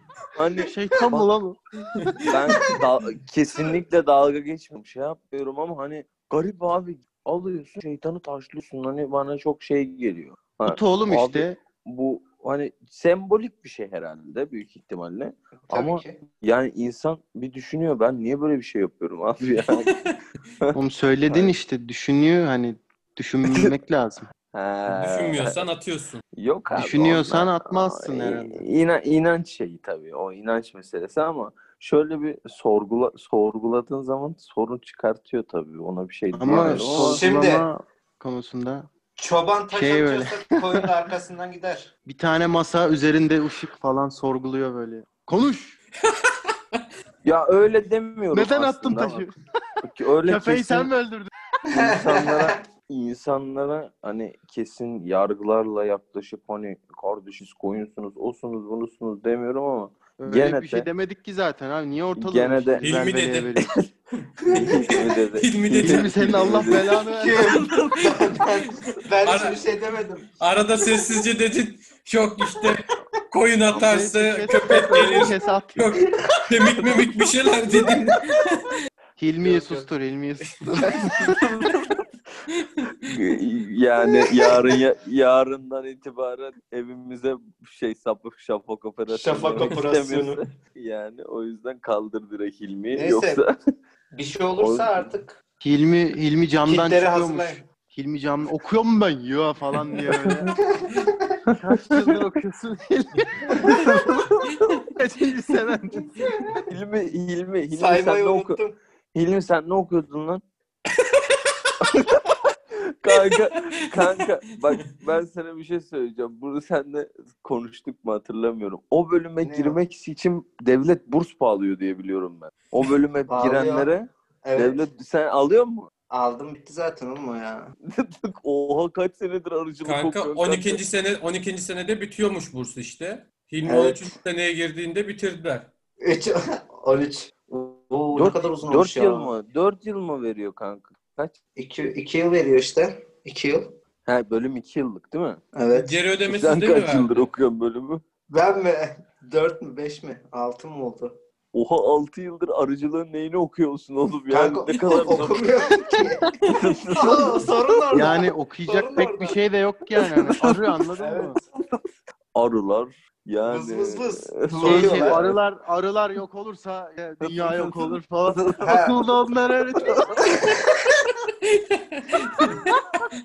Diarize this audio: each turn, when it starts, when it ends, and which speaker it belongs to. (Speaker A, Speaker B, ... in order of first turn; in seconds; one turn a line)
Speaker A: 0.3-1.2
Speaker B: 0.6-2.3
Speaker C: 2.2-2.8
Speaker A: 2.2-19.9
Speaker B: 10.7-11.6
Speaker D: 15.7-16.2
Speaker C: 19.6-20.1
Speaker B: 20.7-24.3
Speaker A: 24.5-25.6
Speaker C: 24.9-26.2
Speaker A: 26.3-37.2
Speaker B: 26.8-28.6
Speaker B: 36.3-38.9
Speaker D: 36.5-37.6
Speaker D: 39.1-41.9
Speaker B: 39.7-40.8
Speaker B: 42.1-45.8
Speaker A: 47.2-49.2
Speaker B: 48.3-49.3
Speaker A: 49.8-50.9
Speaker B: 50.2-51.3
Speaker D: 51.7-52.5
Speaker A: 51.7-60.9
Speaker B: 60.2-63.7
Speaker A: 62.1-62.8
Speaker C: 62.8-63.6
Speaker D: 64.4-65.0
Speaker C: 64.5-66.2
Speaker A: 64.5-68.2
Speaker B: 65.7-67.5
Speaker D: 67.1-70.3
Speaker C: 68.1-68.5
Speaker C: 69.2-69.6
Speaker C: 70.4-78.7
Speaker B: 73.7-75.9
Speaker D: 77.7-78.1
Speaker B: 79.2-81.4
Speaker D: 79.4-79.9
Speaker A: 81.2-82.0
Speaker C: 82.8-83.1
Speaker A: 83.1-93.6
Speaker D: 89.1-90.4
Speaker D: 92.9-93.4
Speaker D: 94.1-95.4
Speaker A: 94.5-95.1
Speaker B: 95.6-100.5
Speaker D: 96.7-97.6
Speaker A: 100.1-100.5
Speaker D: 100.7-101.2
Speaker A: 101.4-102.2
Speaker B: 101.5-104.1
Speaker A: 103.7-104.5
Speaker B: 104.9-106.1
Speaker A: 106.7-108.6
Speaker D: 107.8-108.7
Speaker A: 109.1-110.4
Speaker A: 111.8-125.9
Speaker C: 113.3-114.8
Speaker D: 119.4-119.8
Speaker D: 123.3-123.9
Speaker D: 124.4-124.8
Speaker D: 126.1-127.7
Speaker A: 127.8-130.8
Speaker C: 129.8-135.7
Speaker D: 133.7-134.1
Speaker D: 136.0-139.3
Speaker A: 138.1-141.4
Speaker D: 141.6-143.8
Speaker A: 144.0-145.4
Speaker D: 145.5-146.0
Speaker C: 145.7-147.3
Speaker A: 146.2-148.0
Speaker D: 148.3-151.2
Speaker A: 151.5-158.1
Speaker D: 154.3-156.3
Speaker D: 156.9-159.4
Speaker B: 157.9-161.4
Speaker A: 160.0-160.6
Speaker D: 161.0-161.5
Speaker A: 162.3-165.4
Speaker D: 163.5-165.2
Speaker B: 164.6-170.3
Speaker A: 167.2-168.6
Speaker D: 168.6-169.1
Speaker D: 170.3-170.8
Speaker C: 171.5-172.8